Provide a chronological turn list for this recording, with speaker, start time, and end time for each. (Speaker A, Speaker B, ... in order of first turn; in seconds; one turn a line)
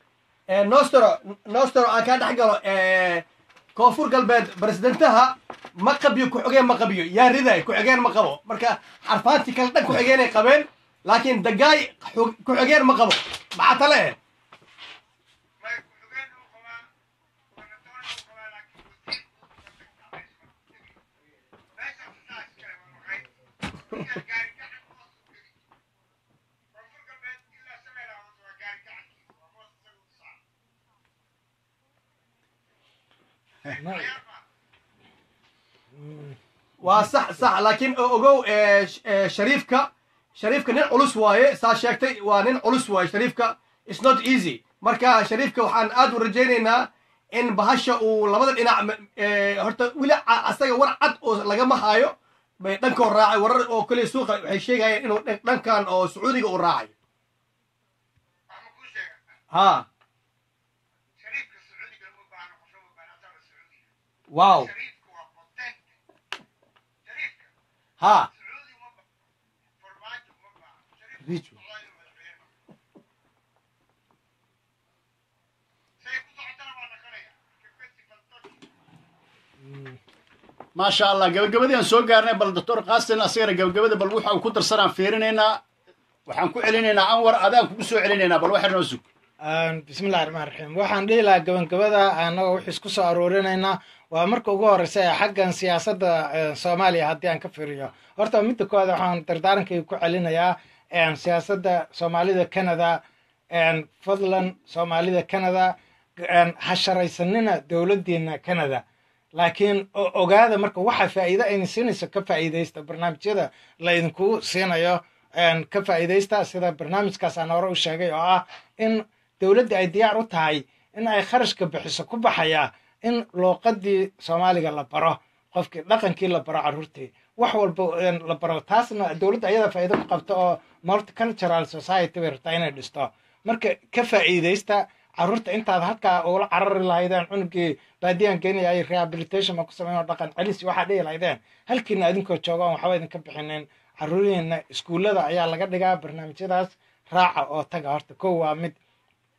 Speaker A: 0.5-3.2
Speaker A: 3.8-14.2
Speaker B: 15.6-16.9
Speaker B: 17.5-21.0
Speaker B: 21.8-25.7
Speaker B: 26.7-30.4
Speaker B: 33.8-34.4
Speaker C: 33.8-34.1
Speaker C: 35.9-36.4
Speaker A: 36.8-56.9
Speaker B: 58.5-59.4
Speaker A: 59.5-59.9
Speaker B: 61.2-63.9
Speaker A: 64.3-64.7
Speaker B: 64.5-66.0
Speaker B: 67.0-67.5
Speaker A: 68.0-68.3
Speaker B: 68.3-69.2
Speaker B: 69.8-72.6
Speaker A: 71.2-71.6
Speaker B: 76.0-78.7
Speaker C: 79.7-80.0
Speaker D: 80.8-85.6
Speaker D: 86.3-89.0
Speaker C: 89.4-103.0
Speaker C: 103.5-108.8
Speaker C: 109.3-148.8